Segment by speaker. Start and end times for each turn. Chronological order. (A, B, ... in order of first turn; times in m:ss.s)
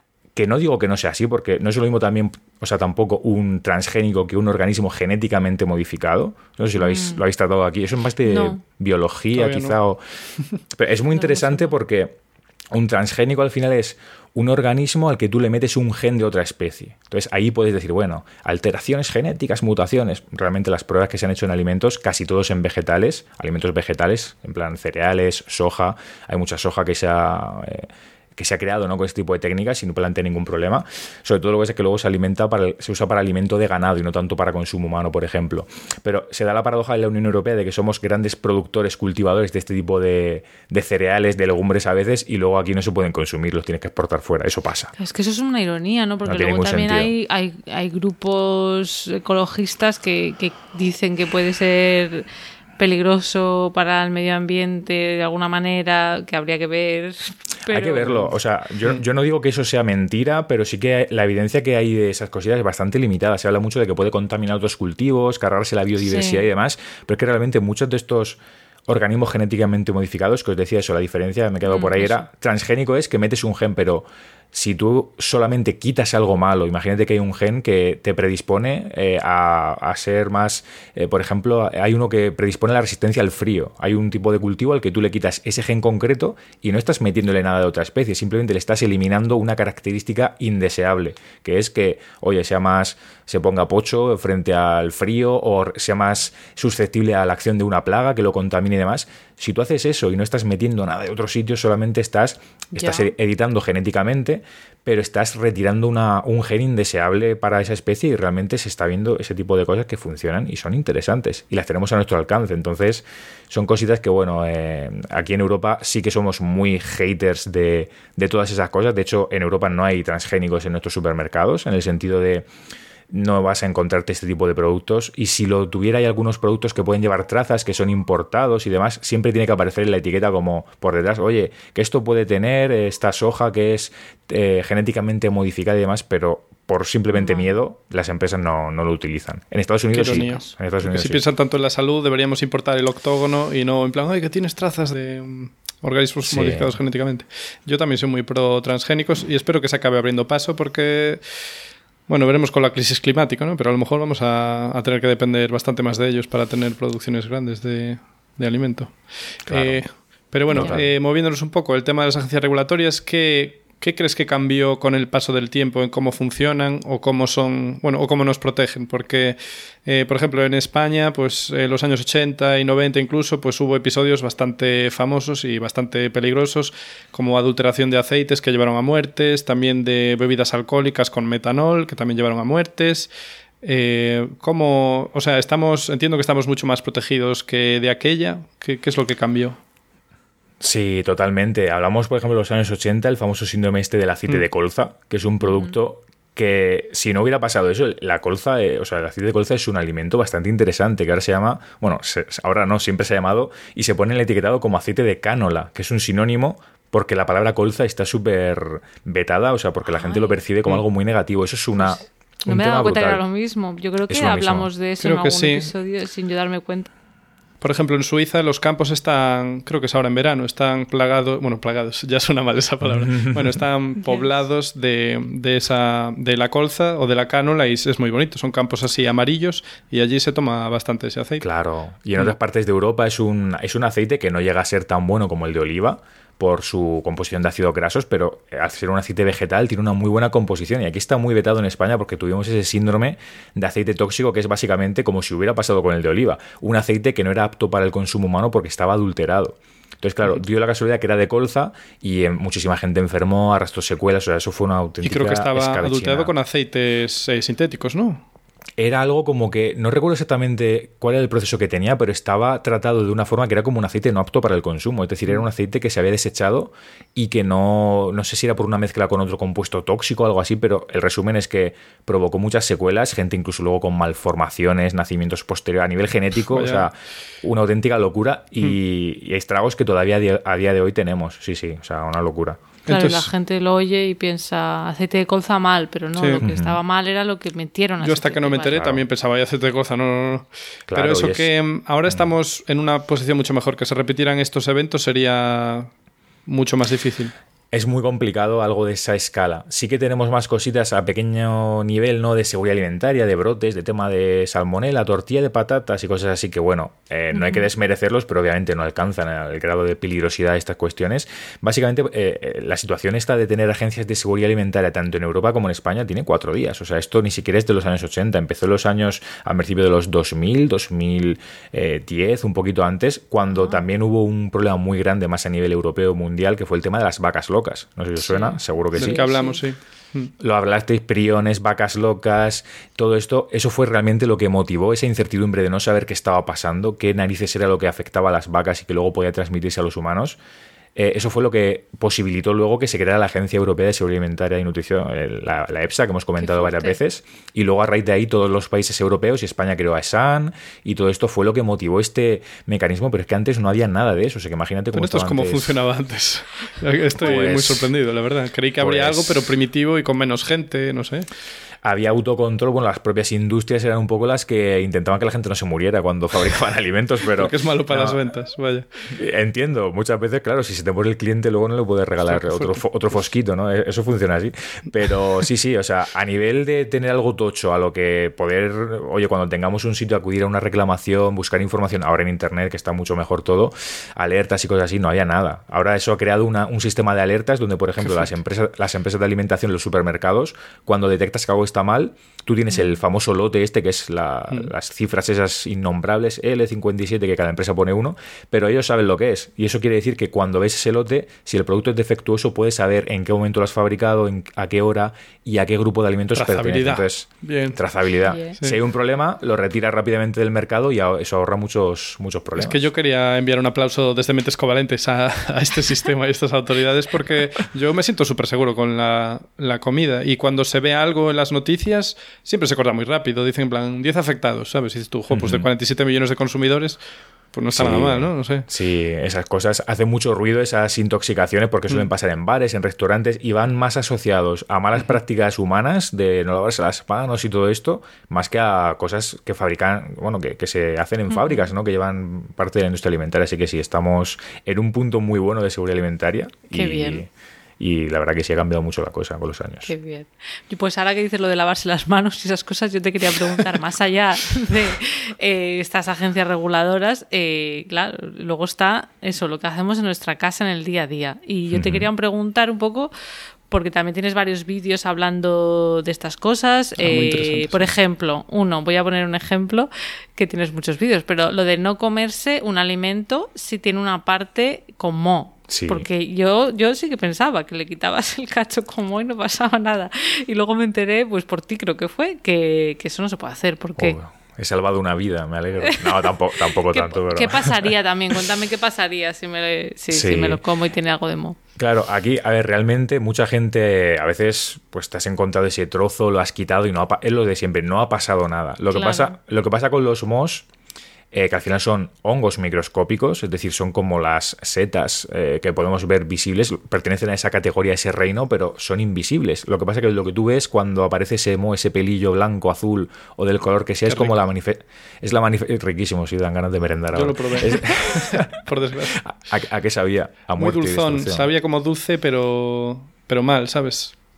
0:00.4-0:10.0 A
0:06.8-0:07.2 B
0:08.2-0:08.6 B
0:09.3-0:09.8 C
0:10.7-0:12.1 A
0:11.1-0:11.7 B
0:12.7-0:44.9 A
0:45.0-0:52.2 B
0:46.2-0:47.1 A
0:52.8-0:58.3 B
0:57.7-2:02.5 A
1:06.0-1:06.4 B
1:11.6-1:12.2 B
1:42.7-1:43.1 B
2:03.1-2:21.2 A
2:17.1-2:17.5 B
2:19.9-2:31.2 C
2:20.2-2:20.5 B
2:26.2-2:26.7 A
2:32.1-3:03.1 C
2:39.5-2:39.8 A
2:40.5-2:40.9 A
2:40.5-2:40.8 B
3:03.6-3:09.6 C
3:10.6-3:33.2 A
3:15.4-3:15.7 B
3:29.9-3:30.4 B
3:31.8-3:36.9 B
3:34.1-3:34.7 A
3:35.0-3:35.7 C
3:37.6-3:51.4 C
3:42.8-3:43.6 A
3:44.0-3:44.3 B
3:51.4-4:16.3 A
4:15.0-4:18.2 C
4:18.8-4:42.6 A
4:36.5-4:36.9 C
4:42.9-4:43.3 C
4:42.9-4:48.8 B
4:46.2-4:46.4 C
4:46.4-4:46.8 A
4:48.0-4:55.9 C
4:48.7-4:49.0 A
4:50.9-4:51.5 A
4:56.5-4:57.3 C
4:57.7-5:29.2 A
5:07.3-5:07.7 B
5:23.5-5:23.8 B
5:28.2-5:29.6 B
5:29.0-5:30.3 C
5:30.4-5:40.4 A
5:41.0-5:55.8 A
5:46.4-5:47.0 B
5:54.9-6:01.3 C
5:57.2-5:57.9 A
5:58.8-5:59.5 A
6:01.8-6:08.2 A
6:07.3-6:08.9 C
6:09.1-6:52.9 A
6:12.3-6:12.8 C
6:28.0-6:28.3 C
6:32.7-6:33.0 B
6:46.3-6:47.8 C
6:48.2-6:48.6 B
6:52.6-7:07.0 C
7:05.3-7:05.7 A
7:07.5-7:08.7 C
7:07.7-7:29.9 A
7:21.3-7:21.7 B
7:26.7-7:27.2 B
7:29.9-7:43.1 B
7:41.7-7:42.1 A
7:43.7-8:04.2 B
7:47.0-7:47.9 C
7:55.7-7:56.0 A
8:04.0-8:07.9 A
8:05.8-8:11.6 B
8:10.1-8:10.6 A
8:11.8-8:20.6 A
8:18.9-8:19.4 B
8:21.3-8:41.5 A
8:34.1-8:34.4 C
8:37.1-8:39.2 C
8:40.6-8:44.1 C